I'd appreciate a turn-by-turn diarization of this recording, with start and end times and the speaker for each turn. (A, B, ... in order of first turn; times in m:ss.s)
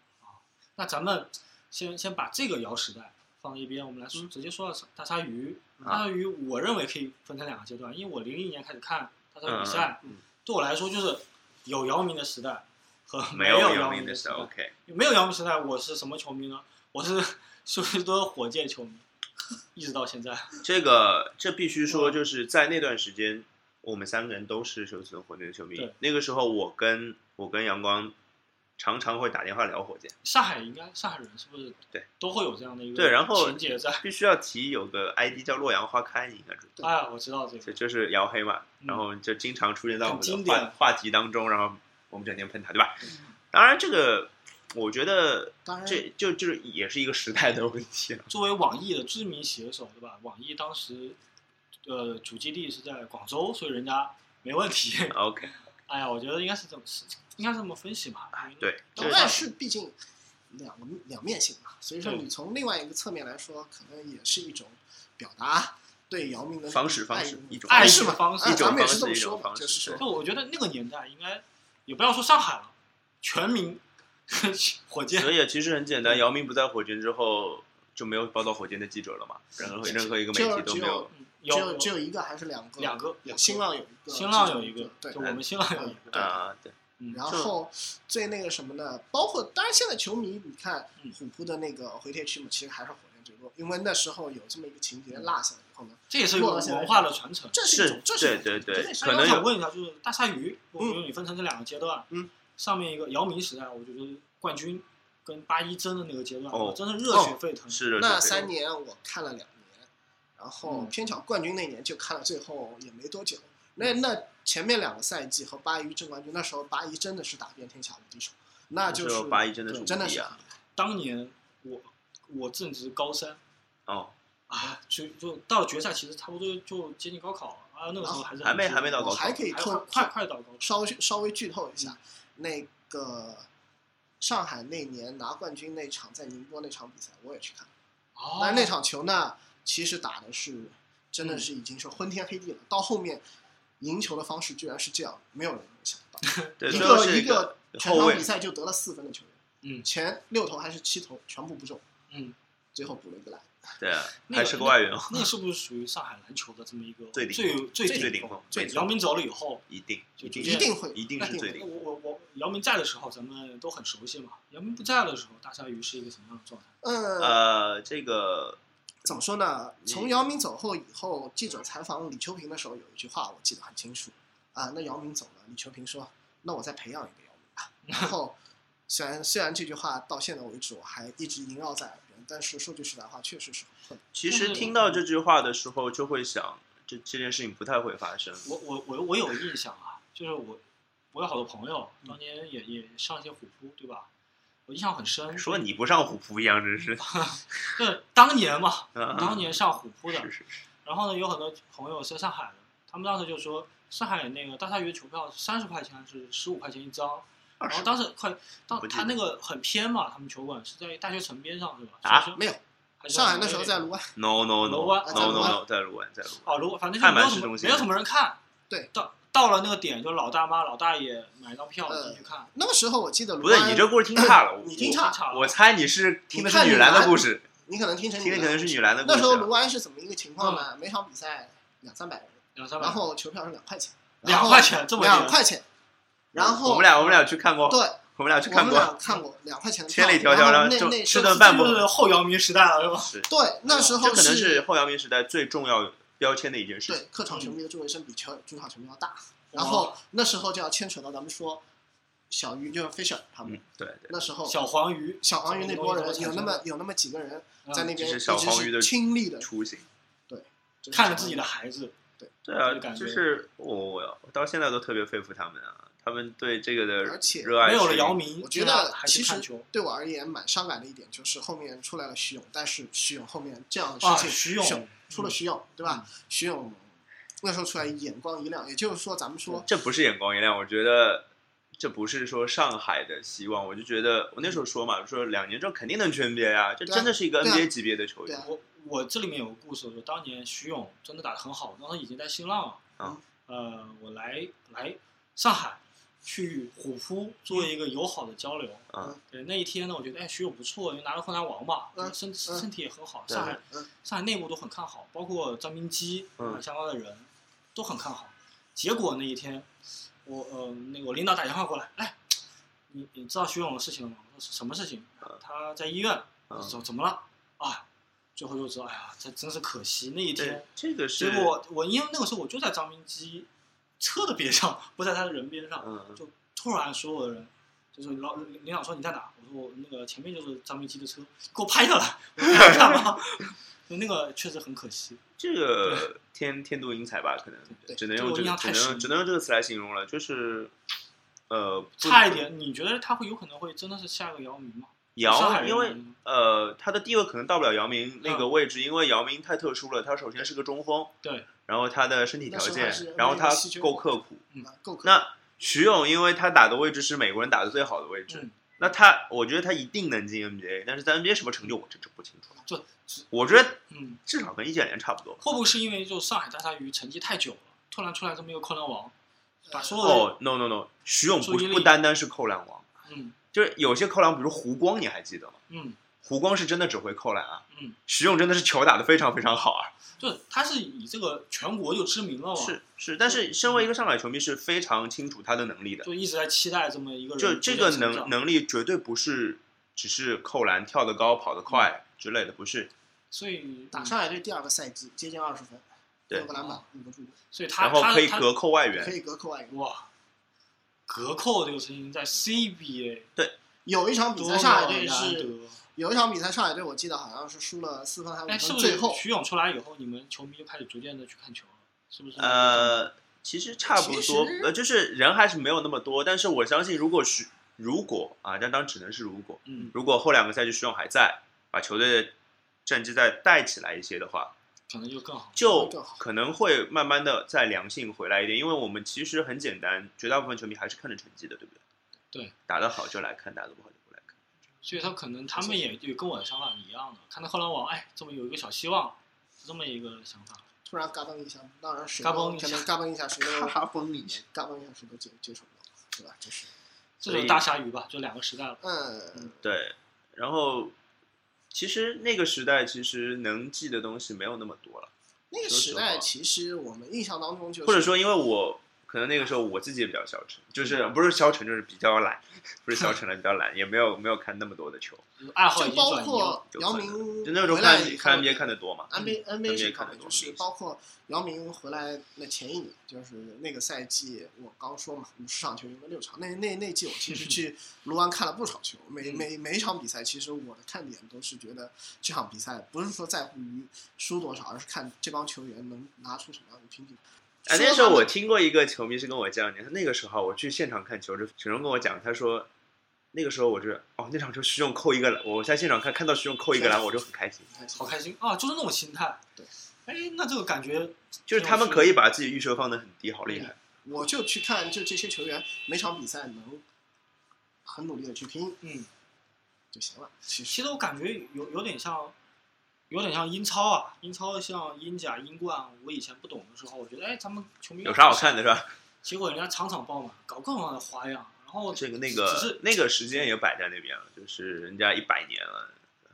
0:00.2-0:20.6 A
0:09.5-0:10.2 B
0:13.3-0:14.7 B
0:20.6-0:28.1 B
0:21.9-0:22.2 A
0:28.8-0:30.1 B
0:30.2-0:34.0 A
0:33.0-0:36.8 B
0:36.8-0:37.8 A
0:37.7-0:48.3 B
0:40.0-0:40.8 A
0:45.7-0:46.1 C
0:48.3-0:51.2 A
0:51.8-0:55.2 A
0:55.1-0:55.5 B
0:55.9-0:59.4 A
0:58.6-0:59.4 B
0:59.0-1:00.0 C
1:00.5-1:10.0 C
1:06.7-1:10.0 B
1:07.7-1:08.8 A
1:10.0-1:15.3 A
1:15.1-1:21.1 B
1:19.8-1:25.2 C
1:21.1-1:21.9 A
1:22.8-1:26.3 A
1:25.7-1:26.4 C
1:26.1-1:26.8 B
1:27.1-1:39.2 C
1:36.1-1:37.6 A
1:37.7-1:39.5 B
1:39.0-1:47.8 A
1:46.5-1:48.5 B
1:48.0-2:00.5 C
1:50.7-1:50.9 A
1:58.9-2:00.4 B
2:00.8-2:03.4 A
2:03.9-2:04.1 B
2:04.5-2:10.8 A
2:08.0-2:08.3 C
2:08.4-2:09.4 B
2:08.9-2:13.5 C
2:14.2-2:17.7 C
2:18.2-2:18.8 A
2:18.4-2:23.2 C
2:21.2-2:21.5 A
2:23.8-2:31.8 C
2:26.2-2:27.0 A
2:26.6-2:28.3 B
2:32.1-2:32.4 A
2:32.7-2:33.7 C
2:33.8-2:35.3 B
2:34.3-2:39.6 A
2:37.2-2:38.9 B
2:37.9-2:38.8 C
2:39.7-2:41.7 B
2:40.2-2:46.7 A
2:40.4-2:41.6 C
2:46.8-2:47.4 C
2:47.2-2:48.6 B
2:49.0-3:04.7 C
2:49.9-2:50.1 B
3:04.1-3:08.5 B
3:04.3-3:05.0 A
3:08.4-3:14.1 A
3:14.7-3:15.6 A
3:15.4-3:17.7 B
3:17.0-3:20.3 A
3:19.0-3:19.6 B
3:20.1-3:20.5 B
3:20.8-3:32.4 A
3:27.6-3:28.0 B
3:28.7-3:29.2 B
3:32.0-3:32.3 B
3:32.4-3:32.6 C
3:33.0-3:33.8 A
3:33.1-3:34.1 C
3:34.2-3:37.9 B
3:34.6-3:35.6 A
3:35.0-3:35.6 C
3:36.4-3:38.4 A
3:38.9-3:42.5 A
3:41.9-3:45.2 C
3:43.4-3:47.5 B
3:44.8-3:45.5 A
3:46.3-3:55.7 C
3:48.2-3:49.5 B
3:50.4-3:50.7 A
3:52.6-3:53.0 A
3:54.2-3:55.4 A
3:56.3-3:57.0 C
3:56.3-3:59.0 B
3:57.0-3:57.2 A
3:57.7-4:01.5 C
3:59.9-4:01.9 B
4:01.1-4:03.2 A
4:03.3-4:04.7 C
4:03.7-4:04.0 A
4:04.0-4:07.0 B
4:06.9-4:11.6 C
4:07.3-4:07.6 A
4:09.5-4:10.0 A
4:12.3-4:14.6 C
4:13.5-4:14.1 B
4:14.5-4:16.6 A
4:15.2-4:19.5 C
4:17.6-4:17.9 A
4:18.0-4:19.9 B
4:20.3-4:21.4 C
4:20.9-4:22.0 A
4:22.4-4:28.2 B
4:22.6-4:23.2 A
4:27.0-4:27.6 C
4:27.6-4:29.7 A
4:28.4-4:39.7 C
4:34.0-4:36.1 A
4:39.6-4:41.3 B
4:41.8-4:48.4 B
4:46.9-4:47.7 C
4:48.4-4:52.8 A
4:53.5-5:09.7 A
4:58.9-4:59.2 B
5:02.0-5:02.7 C
5:03.3-5:03.6 B
5:03.5-5:03.9 C
5:10.2-5:12.2 A
5:12.9-5:17.8 A
5:16.5-5:16.8 B
5:18.4-5:20.7 A
5:20.4-5:21.5 B
5:21.2-5:23.5 A
5:24.0-5:35.2 A
5:25.8-5:26.2 B
5:35.4-5:40.7 B
5:37.7-5:39.1 A
5:41.5-5:42.5 B
5:42.0-5:46.2 A
5:45.2-5:51.1 B
5:48.2-5:48.5 A
5:51.2-5:51.5 A
5:51.6-5:54.4 B
5:52.5-5:55.2 C
5:55.0-6:02.6 B
5:58.3-5:58.6 A
6:02.7-6:03.3 A
6:03.3-6:05.4 B
6:03.9-6:04.2 A
6:05.4-6:09.1 A
6:09.7-6:10.1 C
6:09.7-6:10.3 A
6:10.0-6:12.9 B
6:11.4-6:11.9 A
6:13.1-6:13.4 A
6:13.5-6:15.6 B
6:15.7-6:16.0 A
6:16.2-6:19.9 B
6:17.7-6:18.0 A
6:20.2-6:22.8 A
6:22.6-6:26.1 B
6:26.0-6:28.4 A
6:27.4-6:32.9 B
6:33.3-6:34.2 A
6:33.9-6:37.4 C
6:36.6-6:36.8 A
6:37.5-6:38.5 A
6:37.8-6:39.2 B
6:38.9-6:39.8 C
6:39.7-6:40.1 A
6:41.1-6:43.3 A
6:43.8-6:49.2 C
6:44.4-6:45.8 A
6:48.5-6:53.1 A
6:52.4-7:02.3 B
6:53.9-6:54.7 C
6:59.7-6:59.9 A
7:02.9-7:04.5 B
7:04.9-7:05.6 A
7:05.6-7:11.8 B
7:05.6-7:06.2 C
7:12.7-7:14.3 B
7:14.8-7:20.6 A
7:15.6-7:15.8 C
7:20.8-7:23.8 C
7:22.2-7:22.9 A
7:23.4-7:24.4 B
7:24.3-7:26.7 C
7:27.2-7:27.7 B
7:27.2-7:28.8 A
7:28.8-7:29.6 C
7:29.6-7:30.9 B
7:31.7-7:35.1 B
7:35.5-7:38.2 C
7:35.6-7:36.3 B
7:37.8-7:45.2 B
7:45.4-7:46.6 A
7:45.8-8:08.3 C
7:46.7-7:50.6 B
8:07.7-8:12.7 B
8:13.3-8:17.6 B
8:16.7-8:17.0 C
8:17.7-8:18.1 C
8:17.9-8:19.4 A
8:20.1-8:22.1 A
8:21.5-8:23.8 B
8:24.0-8:26.8 C
8:27.8-8:28.8 C
8:28.8-8:29.1 A
8:29.9-8:30.8 C
8:30.7-8:32.4 A
8:33.1-8:38.6 A
8:38.0-8:38.9 B
8:39.2-8:42.8 A
8:41.9-8:46.0 B